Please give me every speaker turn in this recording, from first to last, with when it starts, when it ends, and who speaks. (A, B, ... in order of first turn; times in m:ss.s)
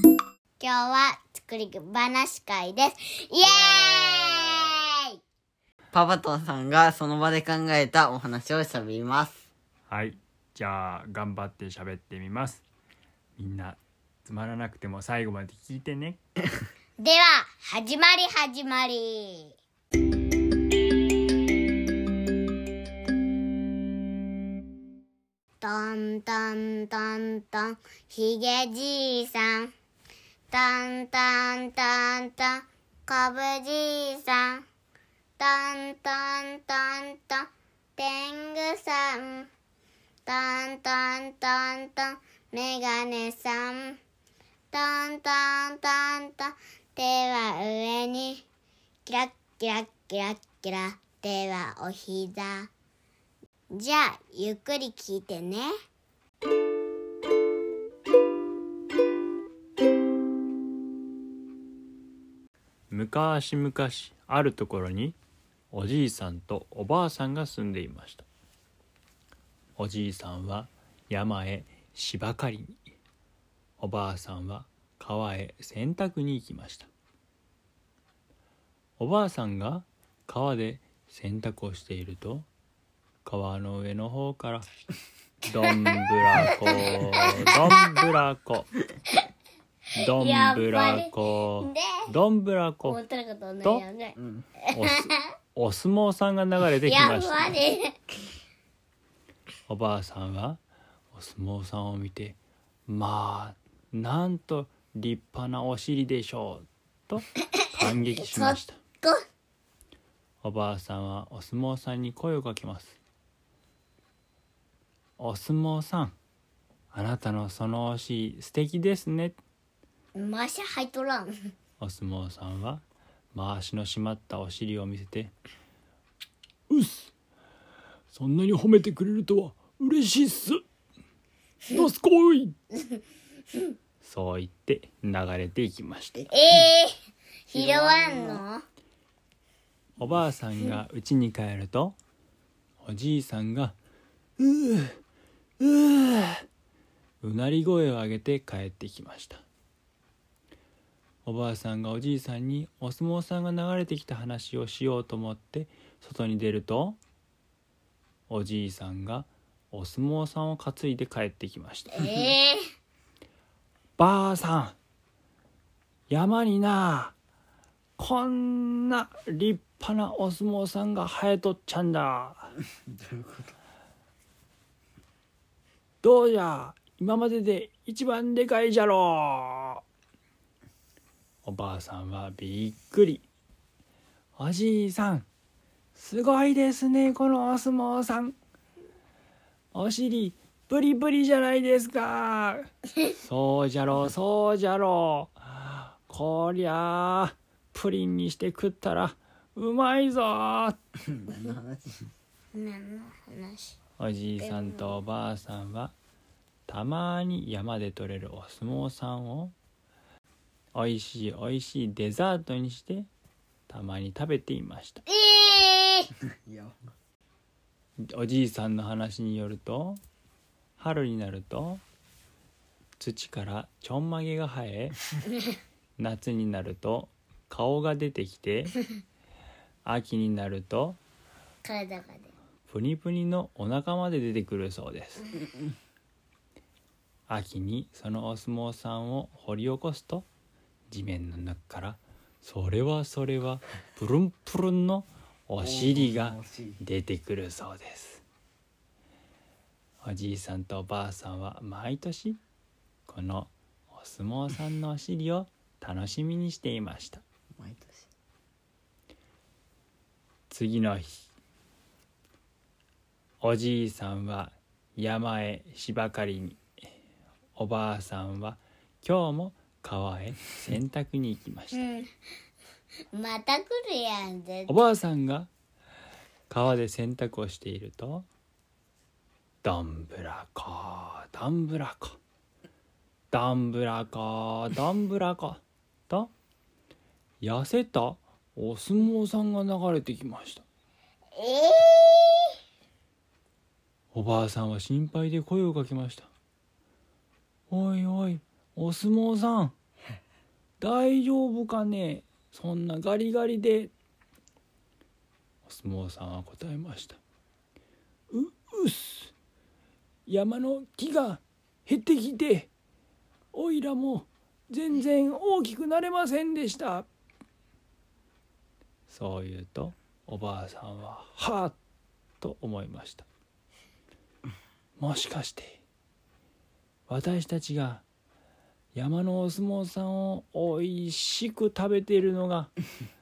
0:00.6-0:05.2 A
0:05.9-0:09.4 B
0:09.9-0:12.6 C
0:13.4-0:16.2 C
0:17.0-0:19.5 A
0:25.6-0:29.7 A
0:30.5-0:34.6 A
0:35.4-0:39.5 A
0:40.2-0:44.0 A
0:44.7-0:48.4 A
0:49.0-0:52.7 A
0:53.7-0:55.7 A
1:02.9-1:05.2 C
1:05.7-1:08.2 C
1:09.8-1:12.8 C
1:13.8-1:16.9 C
1:19.0-1:22.5 C
1:23.2-1:24.7 C
1:25.5-1:28.7 C
1:26.3-1:27.3 A
1:30.0-1:33.0 C
1:30.2-1:31.9 A
1:32.8-1:35.2 A
1:34.2-1:34.4 B
1:34.7-1:37.5 C
1:36.8-1:37.9 A
1:39.7-1:40.6 C
1:41.1-1:48.8 C
1:47.5-1:49.2 A
1:50.4-1:53.0 C
1:55.2-1:56.2 C
1:56.9-1:59.4 C
2:00.1-2:01.3 A
2:01.8-2:02.8 C
2:03.3-2:05.3 C
2:06.7-2:07.1 C
2:08.1-2:10.6 C
2:11.7-2:12.5 C
2:14.0-2:16.2 C
2:16.3-2:16.9 A
2:17.5-2:18.6 A
2:17.5-2:18.4 B
2:20.0-2:22.0 C
2:22.8-2:23.8 C
2:24.4-2:25.0 C
2:25.6-2:26.4 C
2:27.2-2:29.4 C
2:31.2-2:37.0 C
2:38.3-2:42.3 C
2:41.9-2:42.6 A
2:44.0-2:44.8 C
2:46.1-2:47.1 C
2:48.0-2:52.5 C
2:52.9-2:53.5 B
2:56.0-2:59.8 C
3:01.4-3:03.2 C
3:04.4-3:05.3 C
3:06.0-3:08.4 C
3:09.7-3:20.8 C
3:21.1-3:22.0 B
3:22.5-3:23.8 A
3:24.0-3:25.9 C
3:24.4-3:25.0 A
3:26.7-3:29.5 C
3:30.7-3:33.1 C
3:33.7-3:35.0 C
3:35.1-3:36.1 A
3:36.4-3:36.8 B
3:38.1-3:40.0 C
3:40.8-3:41.8 C
3:43.0-3:45.0 C
3:46.0-3:48.8 C
3:49.8-3:51.0 C
3:51.6-3:52.3 A
3:52.7-3:55.3 C
3:57.3-4:00.3 C
4:00.9-4:08.2 C
4:05.6-4:06.8 B
4:10.0-4:12.4 C
4:13.1-4:17.2 C
4:17.6-4:18.1 B
4:20.5-4:21.3 C
4:23.4-4:26.6 C
4:27.6-4:31.8 C
4:31.7-4:32.1 A
4:33.1-4:34.7 A
4:34.7-4:35.5 C
4:36.5-4:38.2 C
4:39.6-4:42.2 C
4:43.3-4:46.3 C
4:47.4-4:50.6 C
4:51.4-4:52.5 A
4:54.1-4:56.3 C
4:57.7-4:59.7 C
5:00.8-5:03.9 C
5:05.6-5:07.2 C
5:08.3-5:09.3 C
5:10.3-5:12.7 C
5:13.5-5:17.1 C
5:19.1-5:21.8 C
5:22.4-5:23.3 C
5:25.0-5:25.8 C
5:27.1-5:28.0 C
5:28.9-5:32.7 C